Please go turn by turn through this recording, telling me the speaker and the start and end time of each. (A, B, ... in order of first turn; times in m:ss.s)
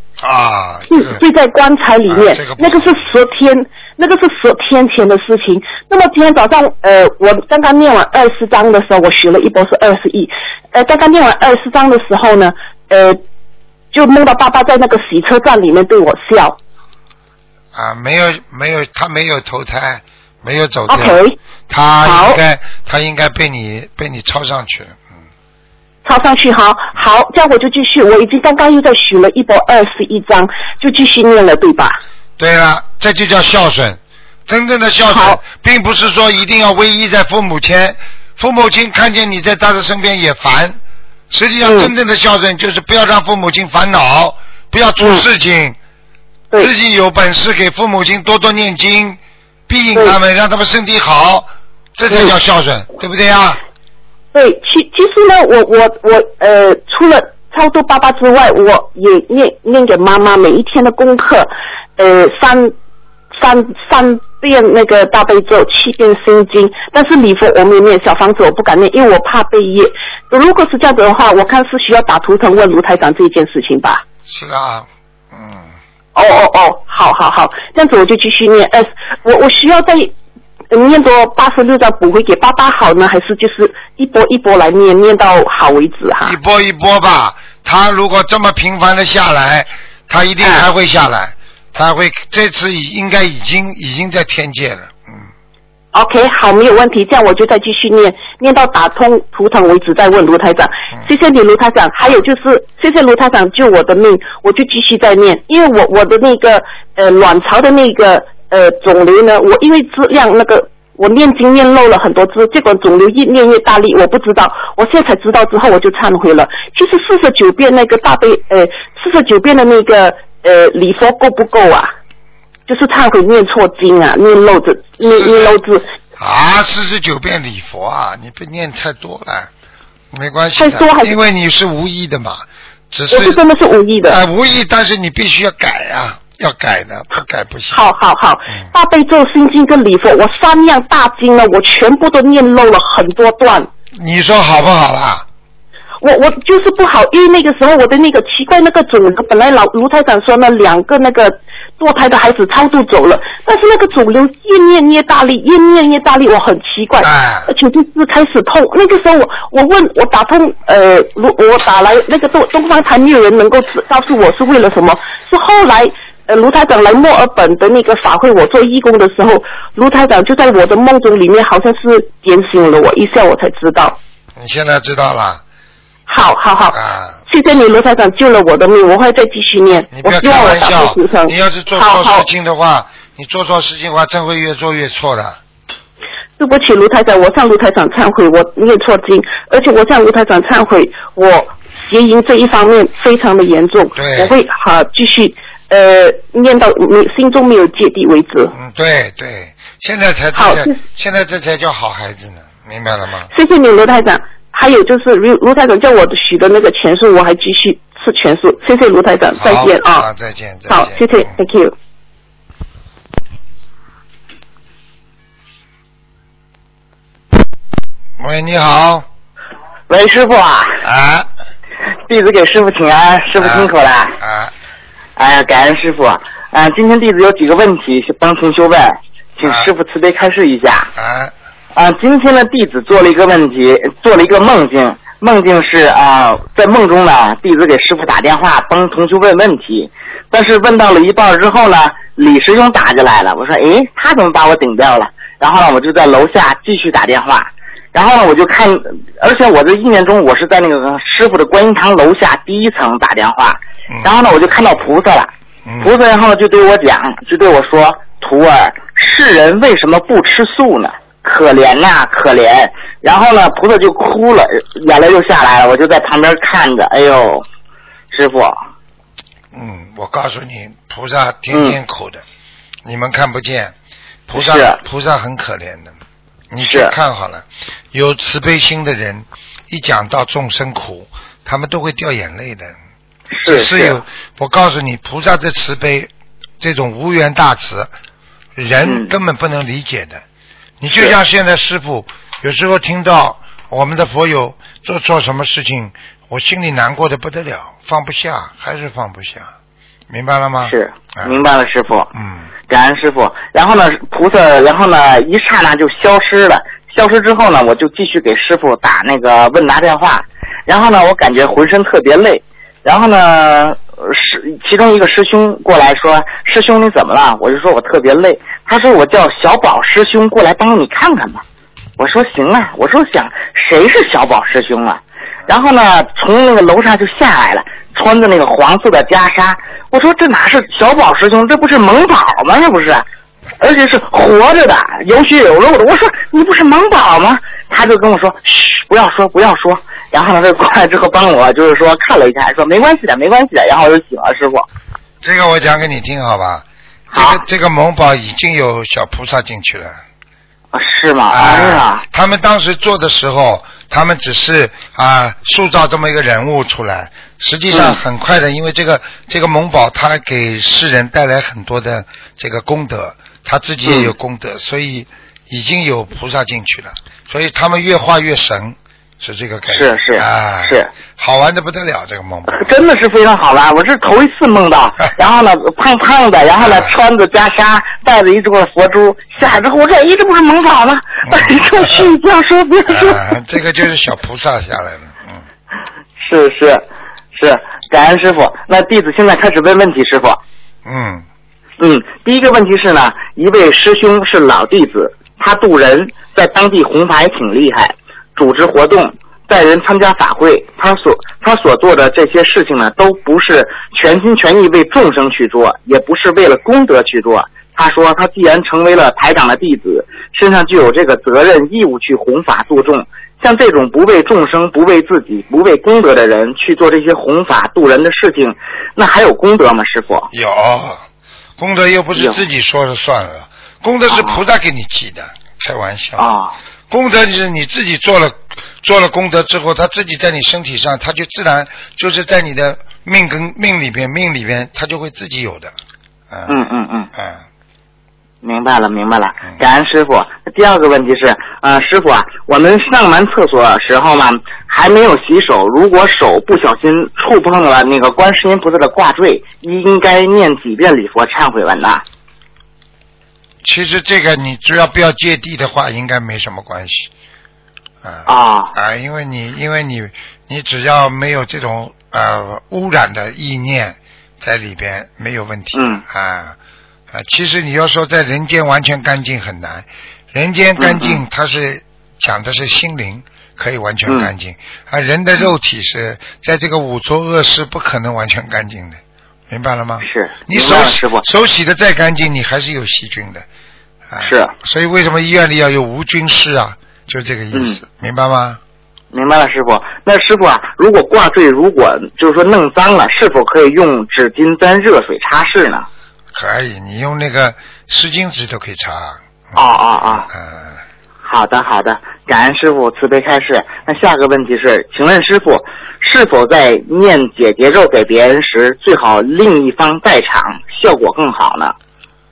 0:00.2-0:01.2 A
0:00.9-0:13.2 B
0:02.1-0:03.1 A
0:13.9-0:16.6 B
0:17.7-0:21.2 A
0:20.9-0:21.4 B
0:21.7-0:25.1 A
0:22.0-0:22.4 B
0:26.0-0:32.0 B
0:32.4-0:40.8 A
0:35.1-0:35.4 B
0:41.3-0:45.8 A
0:41.6-0:41.9 B
0:46.6-0:53.6 A
0:54.3-1:02.7 B
1:03.3-1:14.0 B
1:14.2-1:15.7 A
1:16.1-1:20.1 B
1:20.7-1:26.4 B
1:26.2-1:35.3 A
1:35.9-2:01.9 B
2:02.7-2:05.8 B
2:05.0-2:05.5 A
2:06.2-2:09.5 A
2:10.1-2:13.4 A
2:10.6-2:11.1 B
2:13.1-2:14.2 B
2:14.0-2:17.8 A
2:17.7-2:23.7 B
2:23.9-2:25.2 A
2:26.0-2:54.0 B
2:37.0-2:37.5 A
2:54.4-2:55.4 A
2:56.1-2:56.8 B
2:56.7-2:57.2 A
2:57.3-3:02.3 B
2:59.9-3:05.4 A
3:06.4-3:18.5 B
3:14.0-3:14.3 A
3:18.5-3:23.3 A
3:20.3-3:20.8 B
3:23.3-3:30.1 B
3:29.4-3:31.0 A
3:30.7-3:31.7 B
3:38.2-3:39.0 A
3:39.9-3:40.8 C
3:40.8-3:41.3 A
3:42.1-3:44.2 C
3:43.4-3:44.5 A
3:45.2-3:50.9 C
3:49.4-3:49.7 A
3:50.9-3:51.3 A
3:51.7-4:27.4 C
4:15.6-4:15.9 A
4:28.1-4:28.6 C
4:29.5-4:32.2 A
4:31.5-4:31.8 C
4:32.8-4:33.7 A
4:34.3-4:35.9 A
4:34.3-4:34.8 C
4:36.5-4:42.7 A
4:36.6-4:36.9 C
4:43.3-4:44.0 C
4:43.4-4:47.9 A
4:48.6-4:50.2 A
4:48.8-4:49.1 C
4:50.8-4:59.5 A
5:00.1-5:01.4 A
5:00.6-5:02.1 C
5:02.1-5:02.5 A
5:02.7-5:21.4 C
5:22.0-5:33.0 C
5:33.6-5:44.6 C
5:45.2-5:49.9 A
5:47.1-5:47.4 C
5:50.7-5:52.0 C
5:51.3-6:12.7 A
5:57.7-5:58.0 C
6:03.8-6:04.1 C
6:09.7-6:10.9 C
6:12.6-6:23.2 C
6:16.6-6:16.9 A
6:21.2-6:22.1 A
6:22.9-6:25.4 A
6:26.2-6:30.4 C
6:30.8-6:31.2 A
6:31.8-7:00.3 C
7:00.3-7:01.0 A
7:01.6-7:06.2 A
7:02.2-7:02.4 C
7:04.1-7:04.4 C
7:06.2-7:06.6 C
7:06.9-7:15.7 A
7:16.3-7:16.6 A
7:16.5-7:17.1 C
7:17.1-7:17.4 A
7:18.4-7:32.0 C
7:33.6-7:37.1 A
7:38.0-7:46.6 A
7:38.2-7:38.7 C
7:45.7-7:46.0 C
7:47.1-8:03.4 A
7:50.8-7:51.2 C
8:00.0-8:01.2 C
8:04.1-8:08.6 A
8:04.2-8:04.5 C
8:07.5-8:07.8 C
8:09.1-8:15.9 C
8:16.3-8:19.6 A
8:19.6-8:20.3 C
8:20.2-8:20.8 A
8:21.2-8:31.7 C